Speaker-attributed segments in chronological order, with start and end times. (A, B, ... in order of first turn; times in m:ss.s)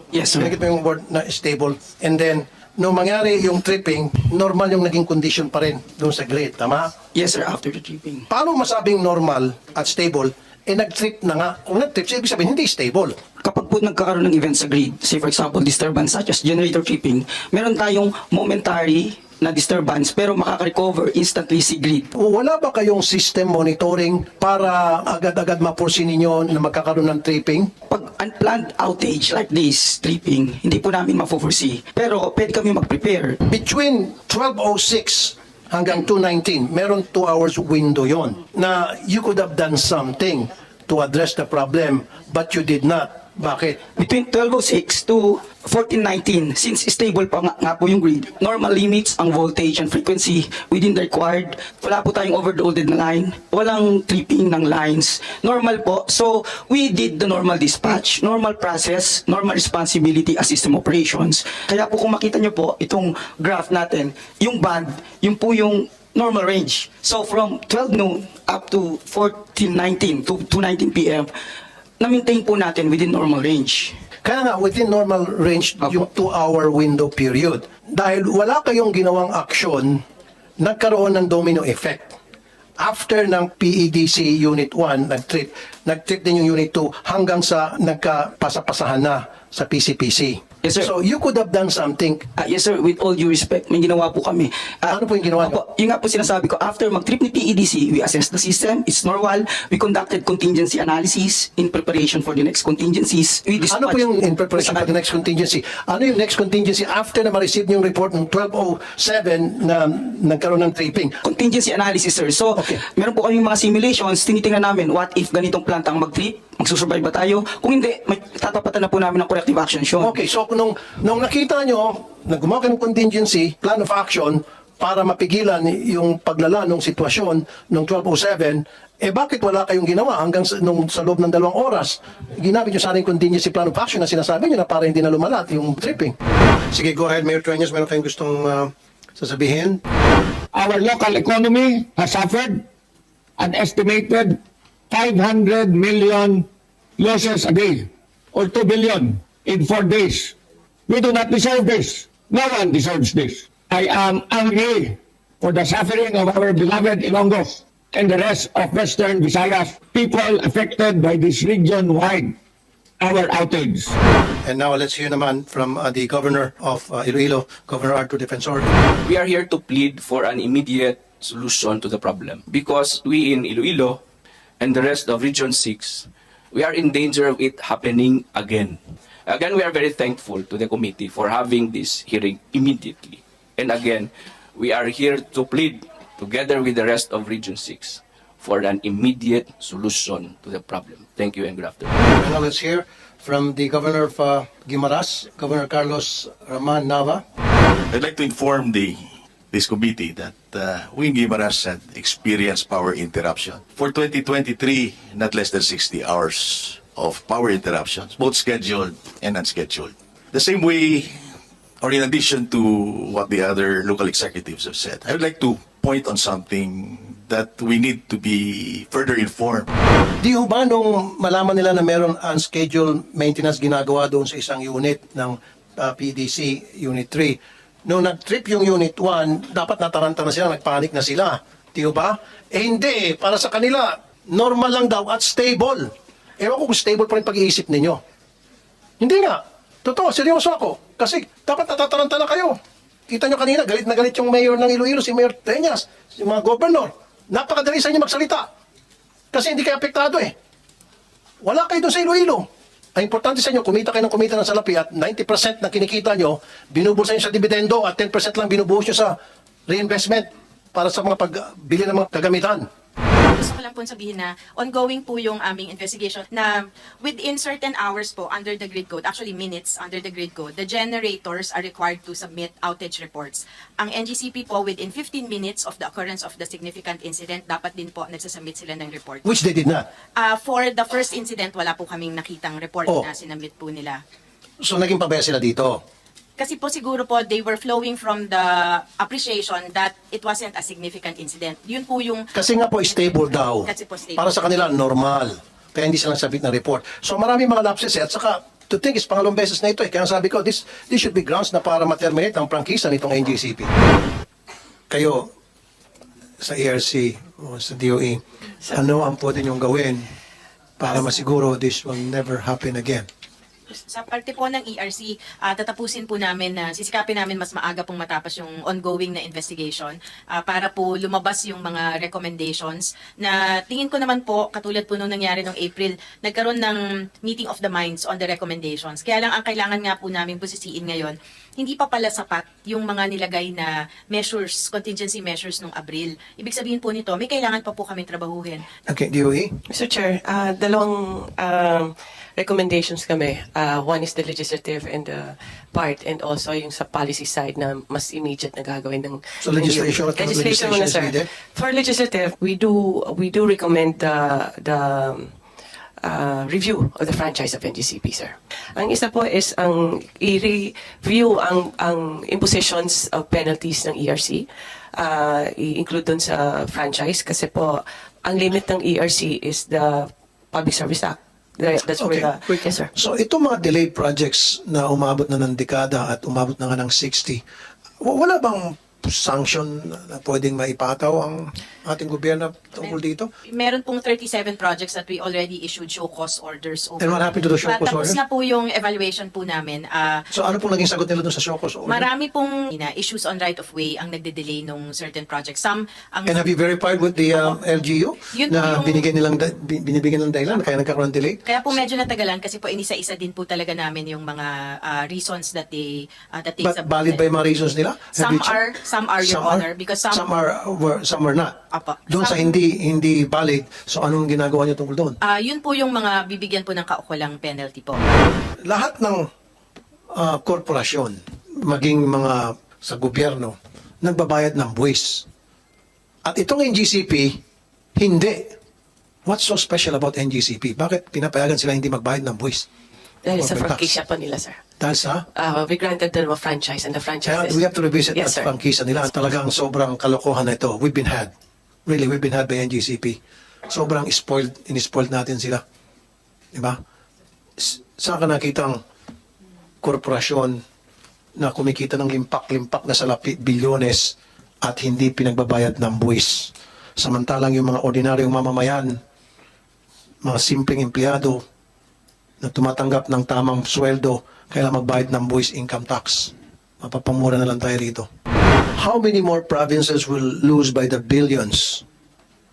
0:00.1-0:00.6 A
0:00.3-0:06.9 B
0:07.1-0:08.3 A
0:08.3-0:13.1 B
0:13.4-0:22.1 A
0:22.1-0:27.7 B
0:27.9-0:33.4 A
0:33.5-0:43.8 B
0:43.9-1:11.3 A
1:12.0-1:14.0 A
1:14.2-1:20.0 B
1:20.6-1:22.2 B
1:22.8-1:32.2 B
1:30.6-1:30.9 A
1:32.4-1:44.9 A
1:34.9-1:35.6 B
1:43.6-1:51.2 B
1:51.2-2:00.2 A
1:52.6-1:52.8 B
2:00.0-2:16.2 B
2:16.7-2:19.8 B
2:20.5-2:22.6 C
2:23.4-2:24.4 C
2:24.9-2:26.5 C
2:27.0-2:30.3 C
2:30.9-2:42.3 C
2:43.0-2:43.9 C
2:44.4-2:48.7 B
2:49.0-2:54.0 D
2:54.6-3:11.9 D
3:12.1-3:17.2 B
3:17.9-3:39.7 E
3:40.2-3:58.0 B
3:59.0-4:08.5 B
4:09.3-4:10.3 B
4:11.4-4:19.1 B
4:19.7-4:22.6 B
4:23.3-4:39.2 F
4:39.2-4:39.8 B
4:40.2-4:44.0 F
4:44.6-4:45.8 B
4:46.4-4:52.3 F
4:52.3-5:03.7 B
4:52.9-4:54.6 F
5:04.9-5:05.3 B
5:06.4-5:10.0 B
5:10.8-5:13.1 B
5:13.8-5:38.7 F
5:38.9-5:39.6 B
5:39.7-5:55.3 G
5:49.4-5:51.3 B
5:56.0-6:12.9 G
6:12.0-6:17.4 B
6:18.0-6:23.3 B
6:22.8-6:30.2 F
6:27.0-6:28.2 B
6:30.3-6:32.1 B
6:31.9-6:36.5 F
6:36.2-6:41.4 B
6:37.3-6:37.6 F
6:38.3-6:39.1 F
6:41.4-6:47.3 F
6:46.6-6:48.6 B
6:48.1-6:50.3 F
6:49.2-6:55.2 B
6:51.7-6:52.5 F
6:55.2-6:58.0 F
6:58.6-6:59.2 B
7:00.1-7:05.2 B
7:06.2-7:07.4 B
7:08.0-7:08.5 B
7:09.2-7:12.7 B
7:13.2-7:14.6 G
7:13.3-7:13.9 B
7:14.8-7:15.2 B
7:15.3-7:18.5 G
7:17.2-7:21.3 B
7:21.9-7:25.6 B
7:27.6-7:28.8 B
7:29.8-7:30.6 B
7:31.4-7:38.9 B
7:40.2-7:41.4 B
7:42.4-7:48.1 B
7:48.7-7:51.8 B